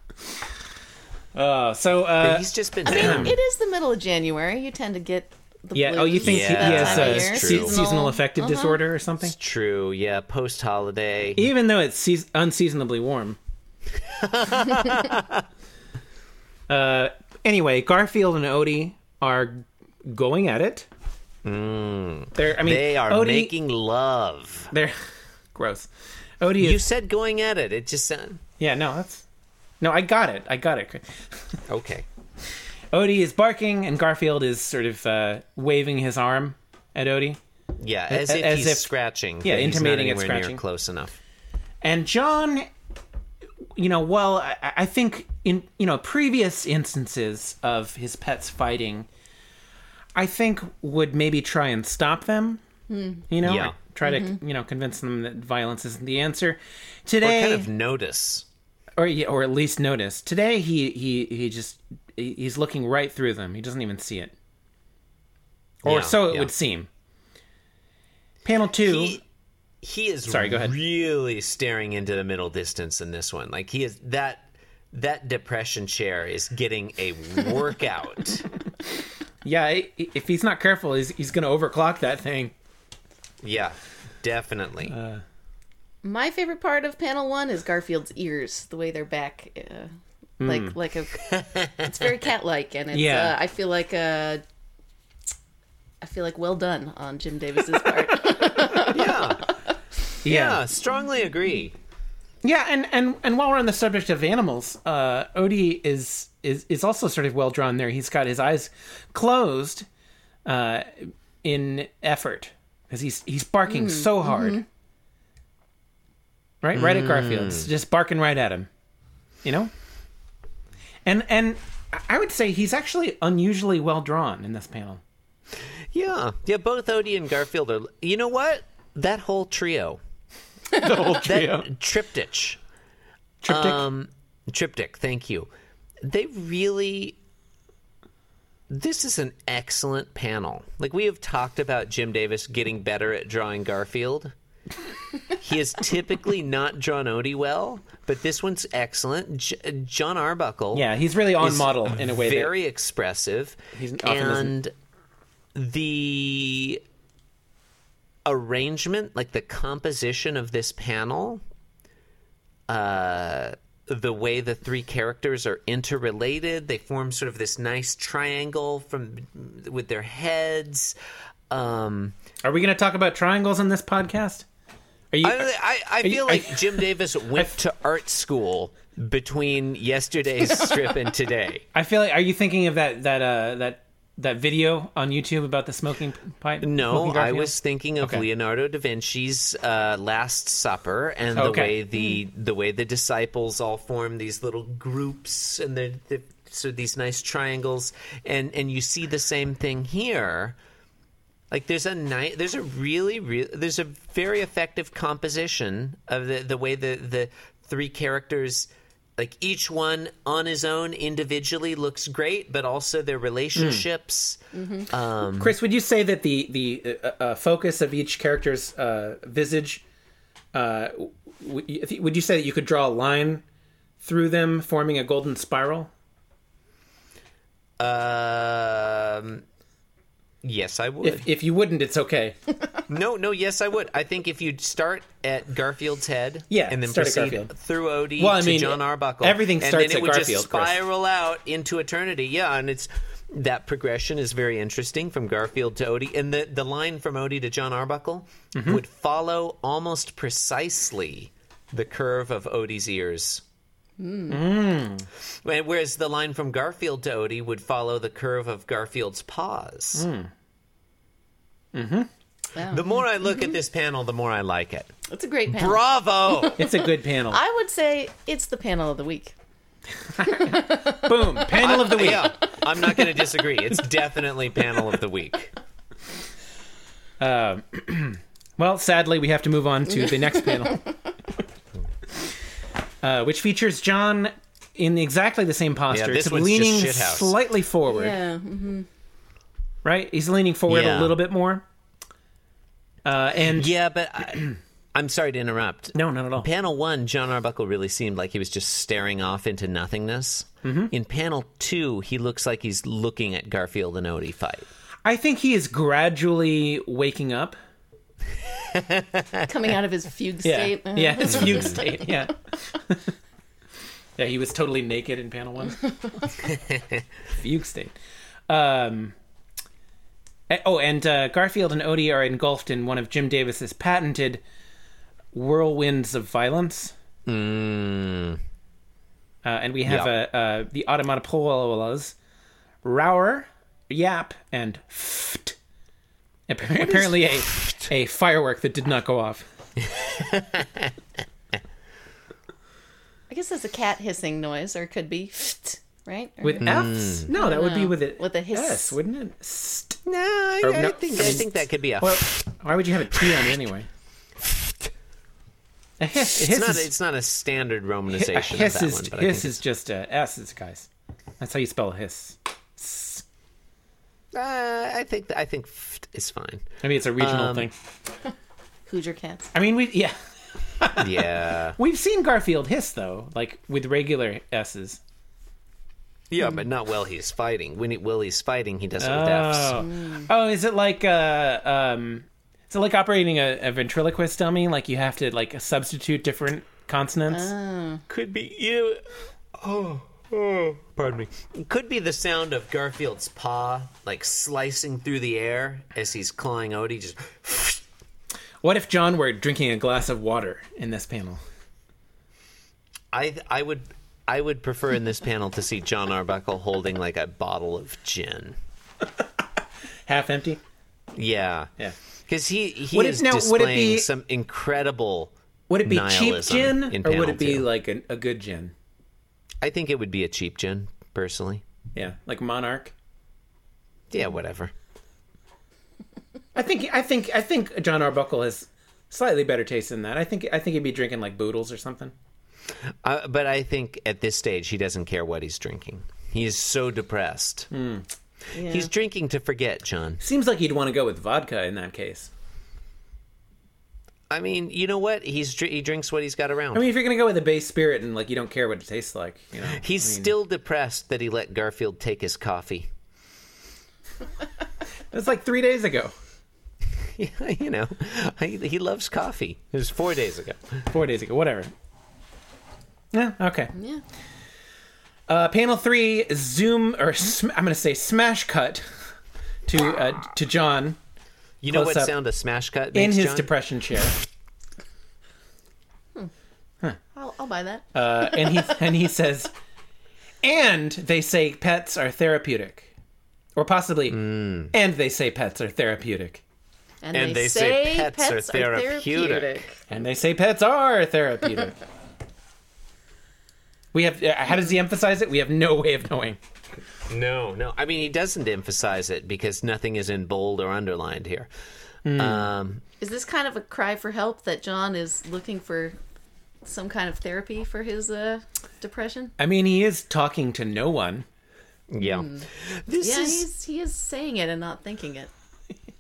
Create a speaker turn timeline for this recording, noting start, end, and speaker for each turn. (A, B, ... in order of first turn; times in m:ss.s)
0:01.3-0:03.4 A
0:02.2-0:03.4 B
0:02.8-0:08.8 C
0:05.8-0:09.4 A
0:06.2-0:07.8 B
0:09.2-0:11.5 B
0:11.4-0:13.4 A
0:14.2-0:15.4 B
0:16.7-0:20.9 A
0:21.4-0:24.7 B
0:22.4-0:23.6 A
0:25.6-0:26.9 A
0:26.6-0:28.4 B
0:28.6-0:29.2 A
0:29.8-0:31.6 A
0:31.7-0:32.1 B
0:32.9-0:37.4 A
0:37.8-0:41.2 B
0:38.1-0:40.6 A
0:41.8-0:42.7 A
0:43.8-0:49.1 A
0:50.2-0:52.6 A
0:52.9-0:53.2 C
0:53.3-0:57.7 A
0:53.4-0:53.8 B
0:54.0-0:54.3 C
0:57.2-0:58.5 B
0:59.0-1:04.3 A
1:05.8-1:06.5 B
1:05.8-1:06.9 A
1:08.4-1:09.2 A
1:08.8-1:09.2 B
1:09.8-1:18.5 B
1:10.3-1:10.8 A
1:19.4-1:22.5 A
1:23.4-1:25.0 B
1:24.9-1:25.2 A
1:26.0-1:29.9 C
1:30.4-1:30.7 A
1:30.4-1:34.4 C
1:32.9-1:33.4 A
1:36.0-1:39.5 C
1:38.9-1:39.4 B
1:40.2-1:40.6 A
1:40.2-1:41.8 B
1:42.4-1:49.9 A
1:50.5-1:54.6 A
1:53.7-1:54.6 C
1:56.6-1:58.7 A
1:56.7-1:57.7 B
1:59.4-1:59.7 A
2:01.1-2:05.0 A
2:05.9-2:10.0 B
2:10.7-2:11.7 A
2:11.2-2:12.6 B
2:13.4-2:13.8 A
2:13.5-2:15.5 B
2:16.0-2:17.2 B
2:18.7-2:24.3 B
2:25.4-2:30.9 B
2:30.7-2:32.5 A
2:31.4-2:34.7 B
2:33.7-2:34.6 A
2:35.6-2:36.8 B
2:38.3-2:41.4 B
2:42.7-2:51.0 B
2:51.5-2:52.2 B
2:52.4-2:54.4 A
2:55.1-2:55.5 A
2:55.2-3:01.6 B
2:56.0-2:57.5 A
3:01.7-3:08.3 A
3:06.6-3:20.6 B
3:11.4-3:11.8 A
3:21.5-3:34.4 B
3:33.6-3:33.9 A
3:34.6-3:34.9 C
3:34.9-3:35.6 B
3:35.4-3:39.8 A
3:40.5-3:43.4 A
3:44.0-3:45.9 A
3:47.8-3:49.4 B
3:50.4-3:51.3 B
3:51.0-3:52.4 A
3:52.9-4:13.4 B
3:56.5-3:57.5 A
3:58.2-4:00.8 A
4:08.6-4:08.8 A
4:14.0-4:14.4 C
4:14.3-4:15.1 A
4:15.4-4:20.1 B
4:20.0-4:20.3 A
4:21.7-4:22.1 A
4:22.5-4:23.5 C
4:22.7-4:24.9 B
4:25.1-4:29.4 C
4:25.5-4:26.6 B
4:26.6-4:27.4 A
4:30.2-4:32.4 A
4:30.3-4:31.0 C
4:31.6-4:35.5 B
4:37.2-4:40.8 A
4:40.1-4:41.0 C
4:43.0-4:48.2 A
4:45.9-4:47.4 B
4:47.9-4:48.9 C
4:49.8-4:51.6 A
4:50.7-4:51.2 B
4:53.0-4:53.7 A
4:53.5-5:04.7 B
4:55.9-4:56.5 A
5:00.6-5:00.9 A
5:05.0-5:07.6 A
5:08.7-5:09.2 B
5:09.4-5:12.3 C
5:10.4-5:13.1 A
5:11.3-5:11.7 B
5:14.2-5:16.0 A
5:17.4-5:18.0 A
5:18.5-5:19.1 A
5:20.5-5:24.4 A
5:25.3-5:26.9 A
5:27.3-5:28.4 B
5:29.4-5:32.1 A
5:29.8-5:30.1 B
5:32.8-5:35.6 A
5:36.5-5:39.4 A
5:36.8-5:37.9 B
5:39.9-5:40.9 B
5:43.3-5:46.7 C
5:46.4-5:50.0 A
5:46.6-5:47.3 B
5:47.3-5:49.0 C
5:50.1-5:52.4 B
5:50.6-5:53.9 A
5:53.1-5:53.5 B
5:56.0-5:56.9 A
5:56.4-5:59.6 B
5:58.1-6:00.9 A
6:01.4-6:03.2 A
6:04.3-6:07.7 B
6:06.8-6:07.8 A
6:08.9-6:09.5 C
6:09.5-6:10.2 A
6:10.8-6:15.0 A
6:11.0-6:11.8 B
6:16.3-6:19.9 B
6:19.0-6:27.5 A
6:19.8-6:20.3 C
6:27.3-6:28.0 C
6:28.1-6:29.0 B
6:29.6-6:37.8 B
6:38.6-6:41.4 A
6:43.1-6:48.6 B
6:50.1-6:50.6 A
6:51.1-6:51.7 B
6:52.3-6:55.3 B
6:52.9-6:54.1 A
6:55.7-6:58.7 A
6:55.8-6:57.7 B
6:59.6-7:01.6 B
7:02.0-7:02.9 A
7:04.1-7:04.7 B
7:06.6-7:12.1 A
7:13.0-7:17.7 B
7:17.7-7:18.1 A
7:18.5-7:18.9 C
7:18.6-7:20.2 B
7:20.2-7:22.3 A
7:24.3-7:26.9 B
7:26.7-7:30.3 A
7:29.6-7:32.9 B
7:35.1-7:36.1 A
7:37.0-7:40.7 B
7:40.9-7:41.7 A
7:43.1-7:43.7 A
7:43.8-7:44.0 C
7:45.3-7:48.8 A
7:49.7-7:51.0 A
7:51.6-7:53.5 B
7:51.7-7:52.1 A
7:52.9-7:54.2 A
7:57.1-7:57.9 C
7:57.9-7:59.5 A
8:00.4-8:02.9 A
8:03.6-8:06.4 A
8:04.1-8:04.7 B
8:07.0-8:09.8 C
8:07.1-8:09.6 B
8:09.9-8:11.8 A
8:13.9-8:16.4 A
8:17.1-8:21.5 B
8:22.1-8:22.5 A
8:22.1-8:22.8 B
8:23.0-8:26.0 C
8:26.6-8:29.3 C
8:29.4-8:31.2 A
8:31.9-8:33.5 B
8:32.0-8:32.5 C
8:33.0-8:35.3 C